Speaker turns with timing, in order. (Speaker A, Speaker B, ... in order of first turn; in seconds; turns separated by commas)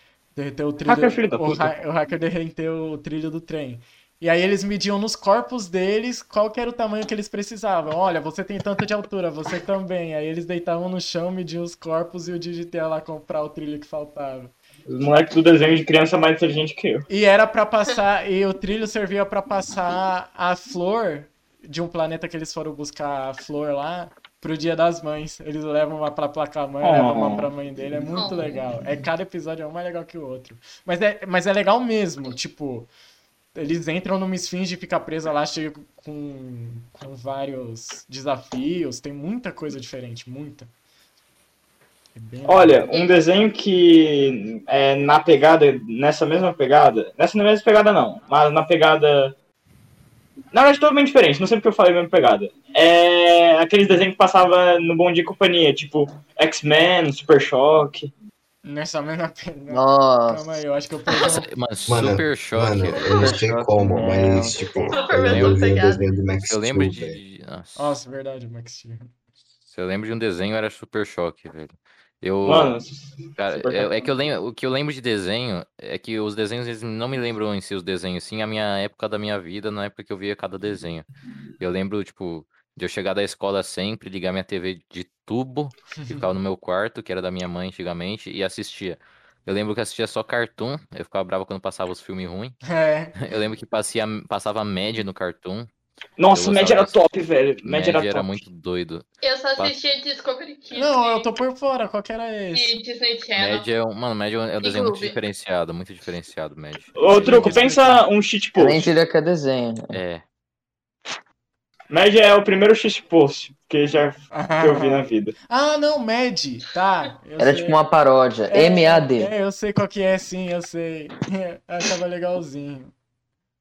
Speaker A: 0.3-14.5, Speaker B: 0.8-1.7, Speaker B: 14.9-17.1, Speaker A: 17.1-32.9, Speaker B: 26.8-27.5, Speaker C: 28.1-28.6, Speaker A: 33.5-40.7, Speaker A: 42.1-42.9, Speaker B: 42.5-49.4, Speaker C: 42.9-43.2, Speaker B: 50.5-58.1, Speaker A: 58.6-61.5, Speaker D: 59.7-60.6, Speaker C: 61.1-61.4, Speaker E: 61.2-63.1, Speaker F: 61.9-67.2, Speaker C: 62.9-63.4, Speaker D: 63.2-64.9, Speaker C: 64.8-66.1, Speaker E: 65.2-65.7, Speaker E: 66.5-68.0, Speaker A: 67.8-69.1, Speaker E: 69.6-72.7, Speaker B: 72.4-74.1, Speaker E: 73.4-81.1, Speaker E: 81.6-92.6, Speaker A: 86.0-86.2, Speaker A: 92.7-93.2, Speaker E: 93.2-95.7, Speaker B: 96.2-98.4, Speaker E: 96.3-97.0, Speaker E: 97.6-99.0, Speaker C: 99.2-101.3, Speaker A: 100.7-102.8, Speaker C: 102.5-103.7, Speaker E: 103.4-107.8, Speaker C: 104.6-105.2, Speaker B: 106.9-108.9, Speaker A: 107.0-108.0, Speaker D: 108.6-110.0, Speaker E: 109.9-110.2, Speaker B: 111.9-115.3, Speaker A: 114.3-117.8, Speaker D: 117.4-119.3, Speaker A: 118.5-122.9